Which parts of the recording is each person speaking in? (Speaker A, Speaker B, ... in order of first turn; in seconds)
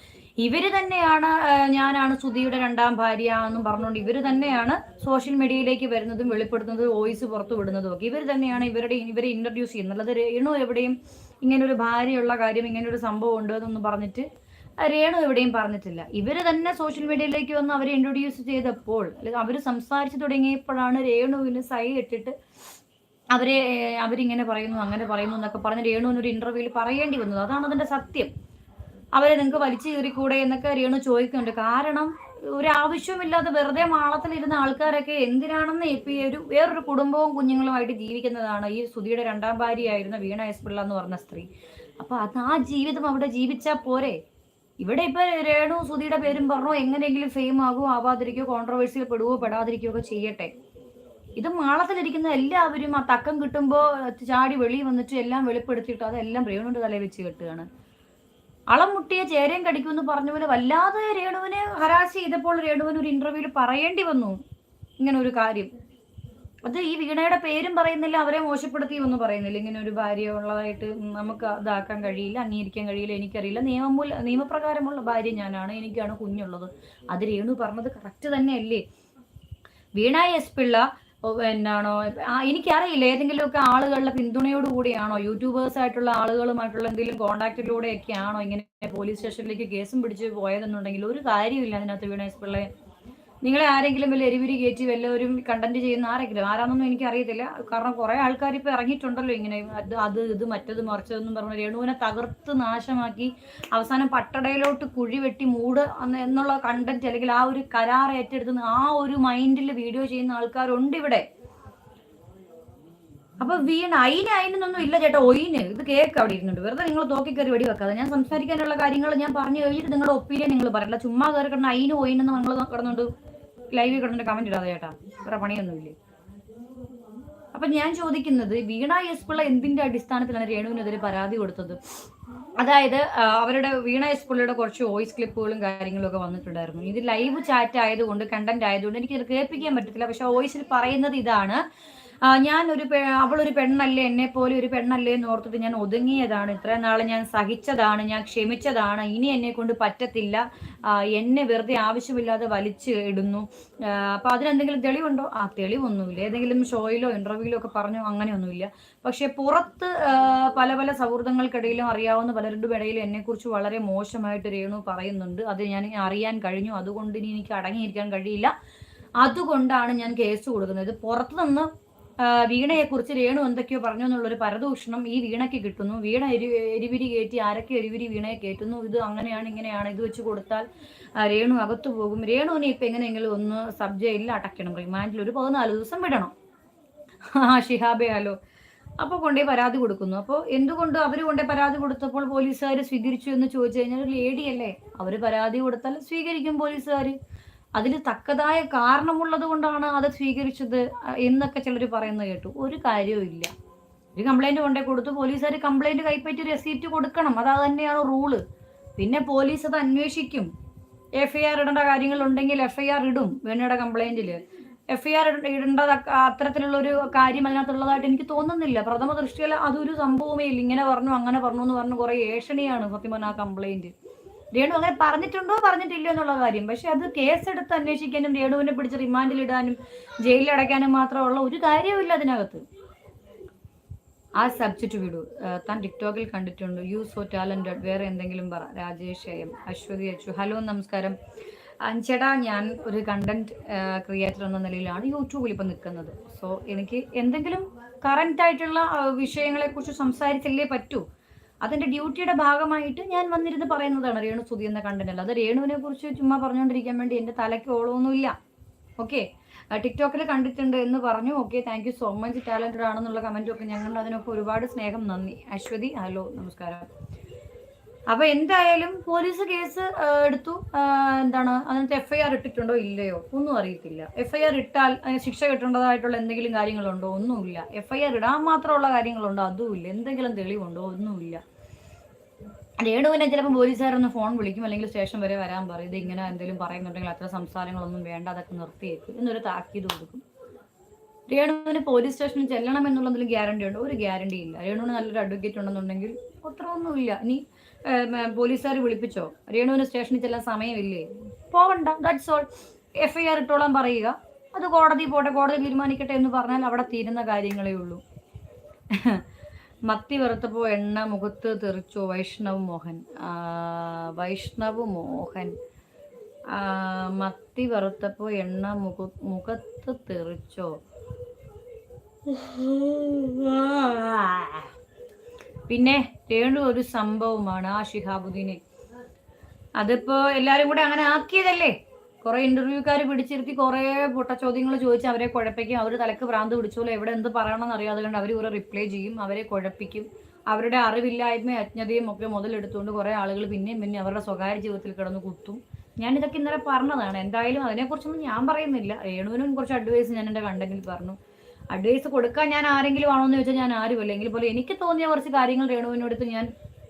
Speaker A: 0.4-14.3, 14.8-22.3, 23.3-28.3, 29.1-41.5, 42.0-44.2, 44.8-50.5, 51.4-57.7, 58.7-64.4, 65.0-65.7, 66.6-78.8, 80.0-92.7, 93.4-111.2, 113.4-123.1, 123.7-125.9, 127.5-131.8, 132.6-141.6, 142.2-168.5, 169.2-171.7, 172.2-180.7, 181.2-186.3, 187.3-188.3, 189.0-197.2, 197.8-203.5, 204.1-208.4, 209.0-210.5, 211.2-214.4, 214.9-223.9, 224.5-232.6, 234.4-241.2, 241.8-251.0, 251.6-258.3, 259.0-266.9, 268.1-281.4, 282.8-290.2, 291.3-308.0, 308.9-309.2, 309.9-315.5, 316.5-320.7, 322.3-324.7, 325.7-328.6, 329.8-351.2, 351.7-356.5